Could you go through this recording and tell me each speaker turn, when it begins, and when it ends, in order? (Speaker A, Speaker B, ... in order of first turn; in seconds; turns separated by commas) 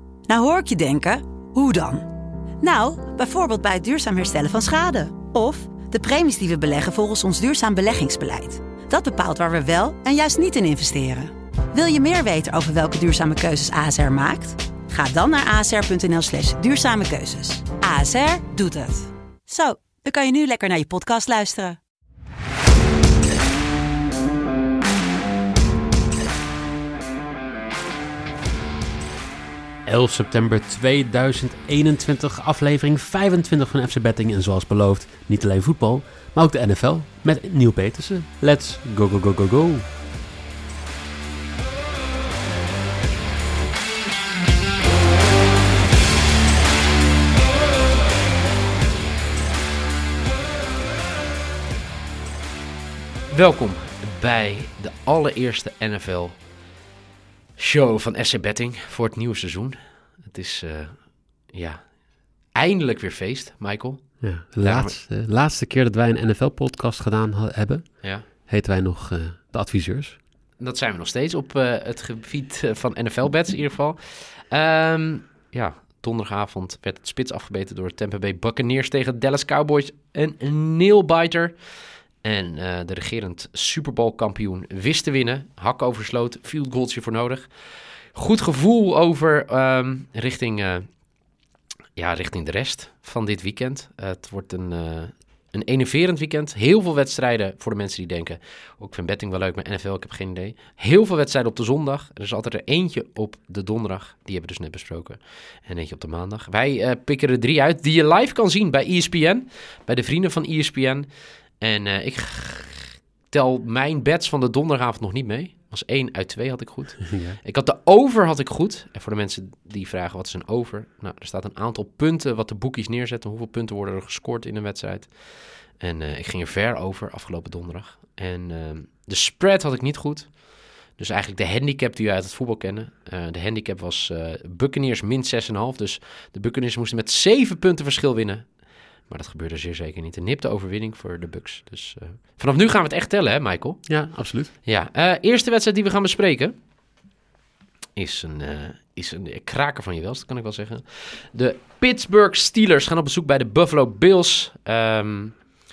Speaker A: 0.3-2.1, Speaker A: 2.6-21.8, Speaker B: 29.9-39.9, Speaker C: 53.3-56.4, Speaker C: 57.6-64.9, Speaker B: 64.2-70.2, Speaker C: 70.6-81.5, Speaker C: 82.2-87.5, Speaker C: 88.1-90.9, Speaker C: 92.0-111.1, Speaker C: 111.6-143.8, Speaker B: 117.1-117.4, Speaker B: 143.9-144.5, Speaker C: 144.6-146.5, Speaker C: 147.9-155.4